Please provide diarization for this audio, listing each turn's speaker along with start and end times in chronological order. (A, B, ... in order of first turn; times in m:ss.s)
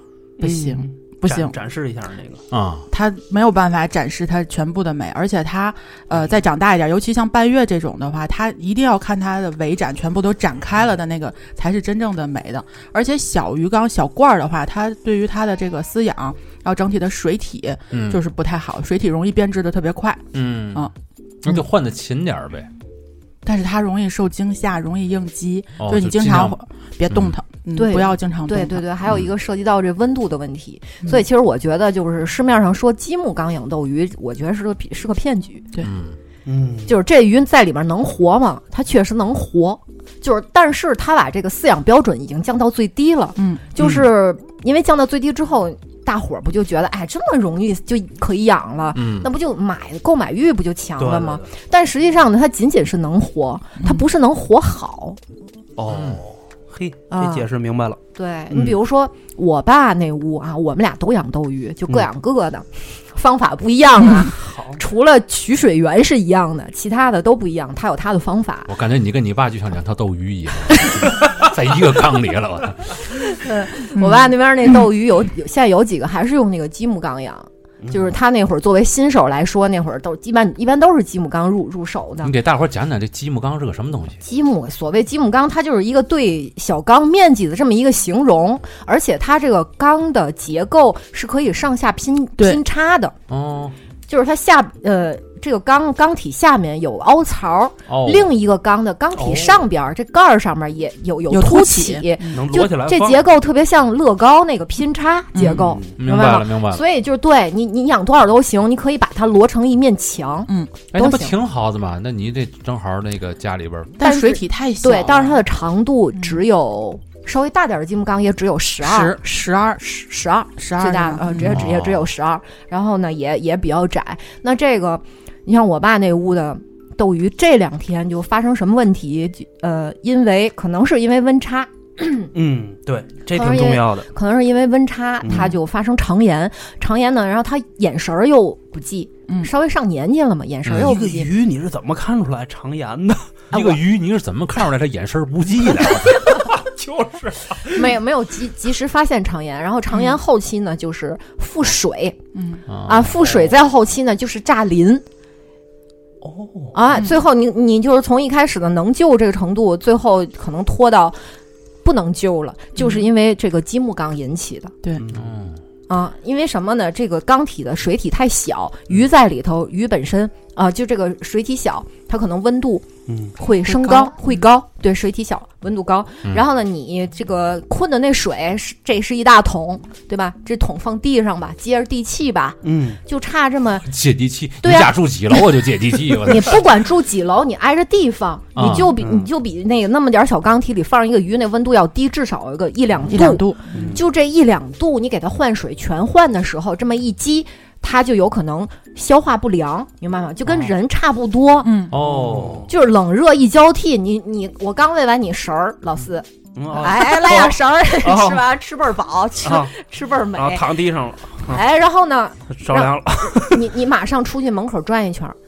0:00.4-0:02.4 A
0:00.4-0:01.5 B
0:02.5-0:02.9 C
0:02.9-0:20.2 B
0:17.9-0:18.2 C
0:20.3-0:20.9 C
0:21.4-0:22.7 C
0:23.4-0:28.9 B
0:25.8-0:26.6 C
0:27.1-0:27.3 C
0:27.8-0:35.7 D
0:35.8-0:36.2 C
0:36.4-0:37.0 A
0:36.9-0:55.2 D
0:43.4-0:43.6 B
0:43.8-0:44.1 A
0:48.9-0:49.3 C
0:51.0-0:51.5 A
0:53.8-0:54.0 B
0:55.8-0:58.0 A
0:55.9-0:56.2 C
0:57.1-0:57.4 D
0:58.1-1:08.7 D
1:04.3-1:04.8 A
1:08.7-1:13.0 C
1:13.2-1:22.3 D
1:13.9-1:14.3 B
1:17.8-1:18.1 A
1:22.2-1:24.2 C
1:24.2-1:33.1 D
1:33.3-1:33.7 C
1:34.1-1:51.3 D
1:37.9-1:38.3 C
1:39.2-1:39.6 A
1:41.3-1:42.3 B
1:42.3-1:43.2 A
1:45.3-1:45.7 B
1:45.5-1:46.0 A
1:46.0-1:46.8 C
1:50.9-1:54.0 C
1:54.0-1:55.4 B
1:54.0-1:59.2 D
1:58.8-1:59.8 B
1:59.8-2:12.3 D
2:00.6-2:01.6 B
2:01.4-2:02.1 C
2:12.3-2:14.1 A
2:13.3-2:21.3 D
2:15.2-2:15.5 A
2:20.7-2:20.9 C
2:20.7-2:23.4 A
2:23.5-2:26.4 C
2:23.5-2:23.8 D
2:25.8-2:27.9 A
2:27.7-2:32.2 D
2:29.9-2:30.2 B
2:32.3-2:32.6 B
2:32.7-2:33.2 C
2:32.8-2:35.0 D
2:36.2-2:36.8 A
2:36.7-2:41.2 D
2:41.8-2:44.7 D
2:45.0-2:45.3 A
2:45.1-2:45.6 C
2:45.9-3:03.9 D
2:53.1-2:53.3 A
2:53.6-2:54.4 B
3:02.6-3:03.0 A
3:03.8-3:06.6 C
3:04.6-3:05.4 D
3:06.2-3:21.7 D
3:08.5-3:08.9 C
3:08.6-3:09.3 A
3:13.1-3:13.9 B
3:13.7-3:14.0 A
3:21.6-3:22.0 B
3:21.9-3:22.7 C
3:22.0-3:22.7 A
3:22.7-3:30.8 D
3:26.6-3:28.5 A
3:29.4-3:29.7 A
3:30.3-3:31.6 A
3:31.4-3:35.4 D
3:32.5-3:33.7 A